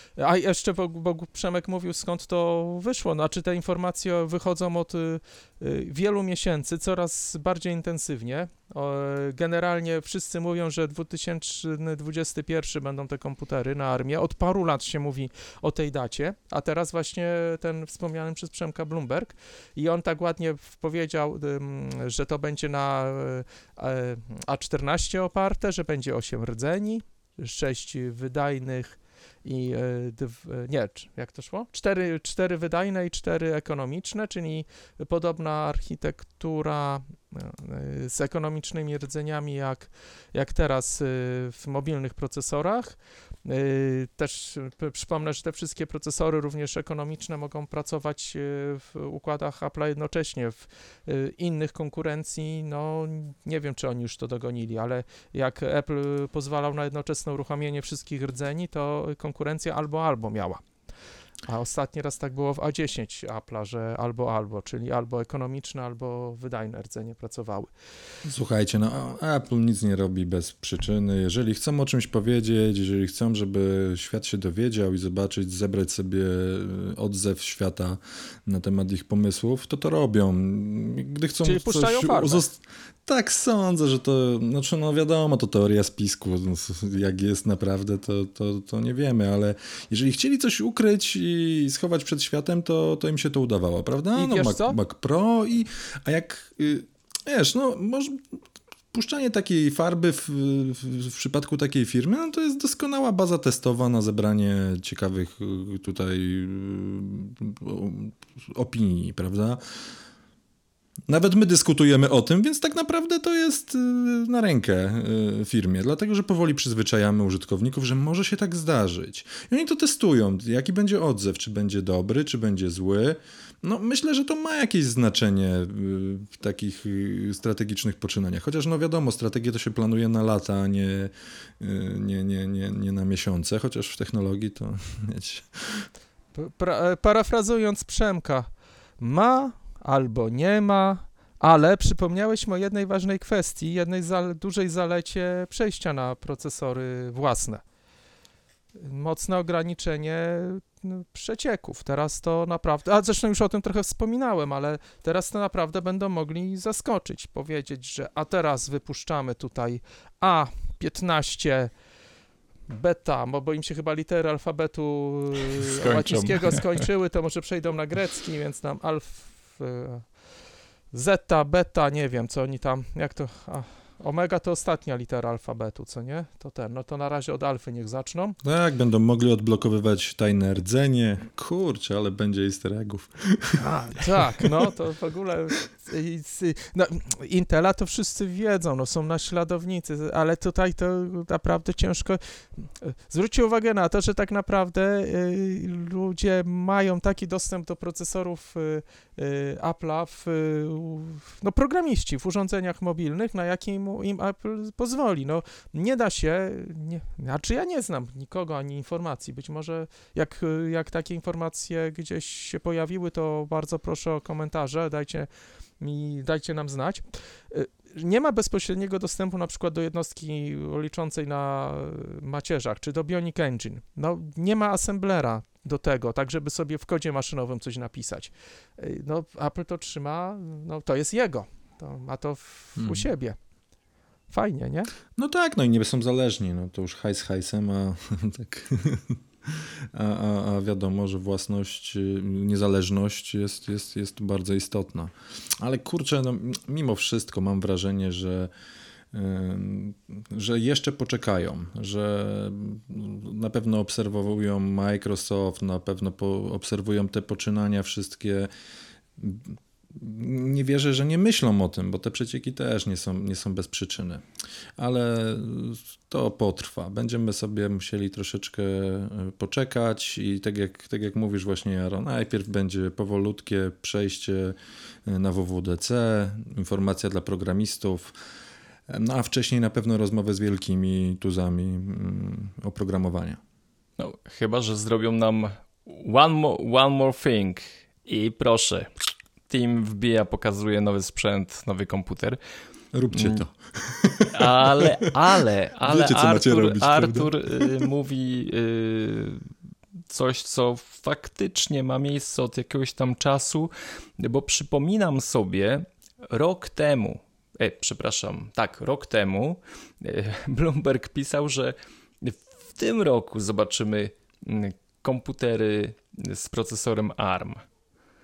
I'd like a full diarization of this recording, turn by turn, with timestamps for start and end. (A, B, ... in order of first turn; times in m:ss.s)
0:00.2-1:00.6 A
1:01.5-1:07.7 A
1:08.2-1:38.4 B
1:21.4-1:22.4 A
1:34.2-1:34.8 A
1:38.9-1:49.6 B
1:51.1-2:15.9 B
2:16.3-2:18.5 A
2:19.0-2:27.6 A
2:28.8-2:41.7 A
2:42.7-2:50.1 A
2:45.8-2:46.6 C
2:50.9-2:58.4 A
2:58.4-3:03.6 B
3:03.6-3:35.3 A
3:04.2-3:04.5 B
3:35.8-3:53.4 A
3:52.8-3:53.1 B
3:54.3-3:54.9 A
3:55.2-4:08.5 B
4:09.1-4:18.5 B
4:19.2-4:24.2 B
4:24.8-4:38.1 B
4:38.9-4:43.4 B
4:44.0-4:48.9 C
4:49.5-4:52.4 C
4:52.9-4:57.9 B
4:53.1-4:53.4 C
4:54.3-4:59.4 C
5:00.1-5:17.6 C